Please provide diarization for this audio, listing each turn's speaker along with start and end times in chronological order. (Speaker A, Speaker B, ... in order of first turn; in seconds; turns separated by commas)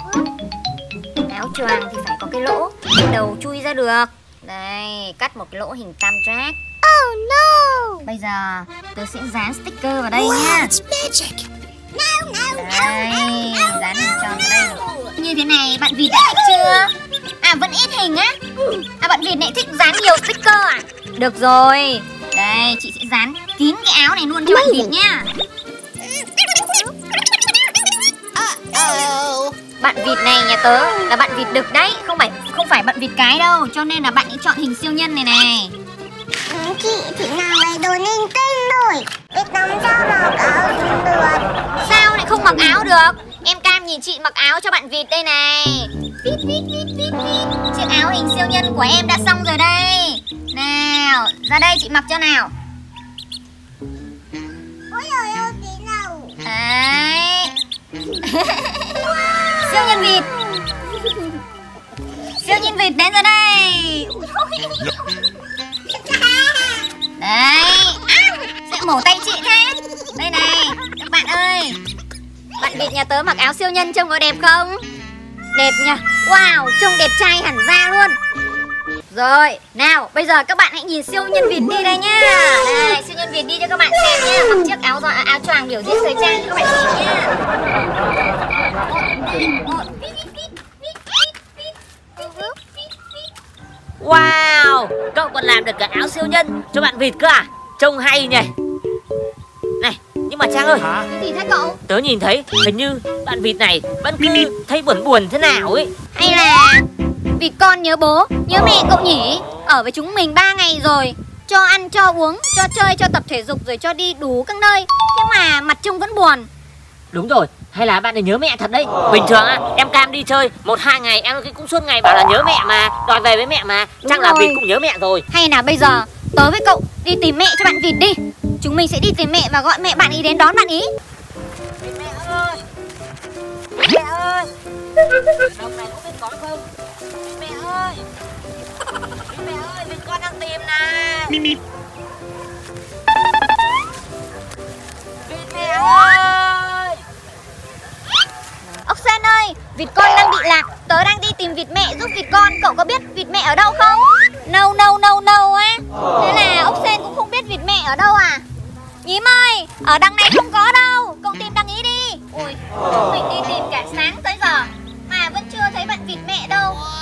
Speaker A: 1.2-6.6, Speaker B: 6.9-8.0, Speaker A: 8.0-10.7, Speaker B: 10.4-11.3, Speaker B: 11.9-15.1, Speaker A: 12.6-18.4, Speaker B: 16.1-16.8, Speaker A: 19.0-25.3, Speaker B: 28.4-29.4, Speaker A: 29.8-35.7, Speaker B: 36.5-41.5, Speaker A: 41.8-52.5, Speaker B: 54.9-56.4, Speaker A: 56.4-57.5, Speaker A: 58.2-59.0, Speaker B: 59.3-59.9, Speaker A: 59.6-60.3, Speaker A: 62.4-64.8, Speaker A: 67.2-71.8, Speaker A: 72.6-74.8, Speaker A: 75.5-78.2, Speaker A: 79.1-87.3, Speaker A: 88.9-92.8, Speaker C: 94.0-98.5, Speaker C: 99.8-100.9, Speaker A: 101.1-101.8, Speaker C: 101.9-105.9, Speaker A: 106.1-106.8, Speaker A: 107.4-116.5, Speaker C: 117.1-125.2, Speaker A: 124.0-124.6, Speaker A: 125.3-130.9, Speaker C: 131.8-132.6, Speaker C: 133.7-134.5, Speaker C: 135.3-136.6, Speaker C: 137.2-138.1, Speaker C: 139.3-141.6, Speaker C: 145.3-147.0, Speaker A: 148.8-158.4, Speaker A: 159.0-166.8